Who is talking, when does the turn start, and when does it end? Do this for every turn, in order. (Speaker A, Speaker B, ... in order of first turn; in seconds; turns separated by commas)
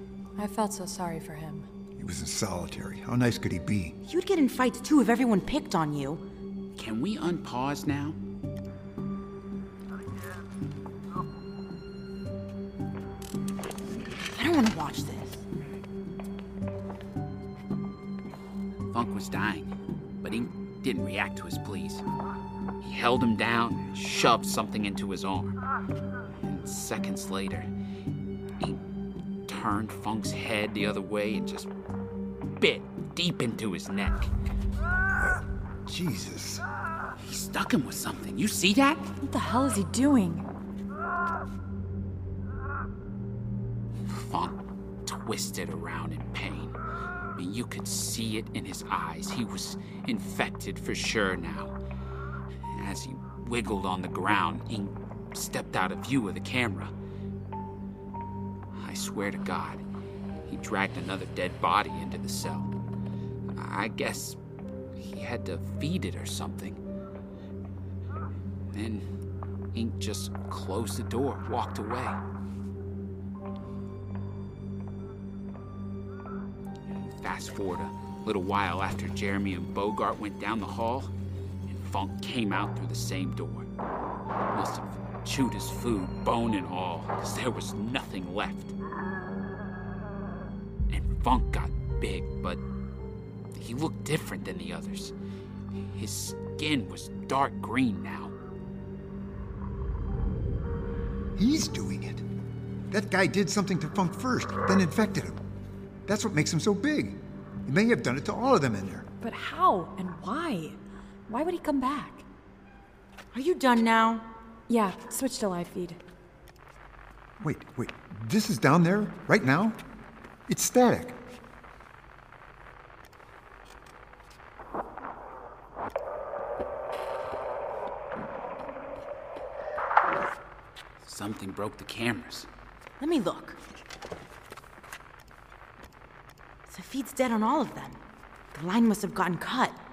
Speaker A: 0.4-1.7, Speaker B: 2.0-4.0, Speaker C: 4.0-6.2, Speaker D: 6.8-8.2, Speaker C: 14.3-15.4, Speaker D: 18.9-19.7, Speaker D: 20.2-22.1, Speaker D: 22.8-25.6, Speaker D: 26.4-27.7, Speaker D: 29.5-31.7, Speaker D: 32.6-34.3, Speaker B: 35.1-36.6, Speaker D: 37.2-39.1, Speaker A: 39.2-40.5, Speaker D: 44.1-46.8, Speaker D: 47.4-51.8, Speaker D: 52.7-56.9, Speaker D: 58.8-59.8, Speaker D: 60.5-62.7, Speaker D: 63.5-64.4, Speaker D: 65.0-66.8, Speaker D: 68.7-69.1, Speaker D: 69.7-72.2, Speaker D: 76.8-81.1, Speaker D: 81.7-83.7, Speaker D: 84.5-88.7, Speaker D: 90.9-92.6, Speaker D: 93.5-95.1, Speaker D: 95.9-98.3, Speaker B: 101.4-102.2, Speaker B: 102.9-105.4, Speaker B: 106.1-109.1, Speaker A: 109.2-112.2, Speaker C: 113.3-114.3, Speaker A: 114.7-116.0, Speaker B: 117.4-119.8, Speaker B: 120.5-121.2, Speaker D: 131.0-132.5, Speaker C: 133.0-133.6, Speaker C: 136.7-138.0, Speaker C: 138.5-139.8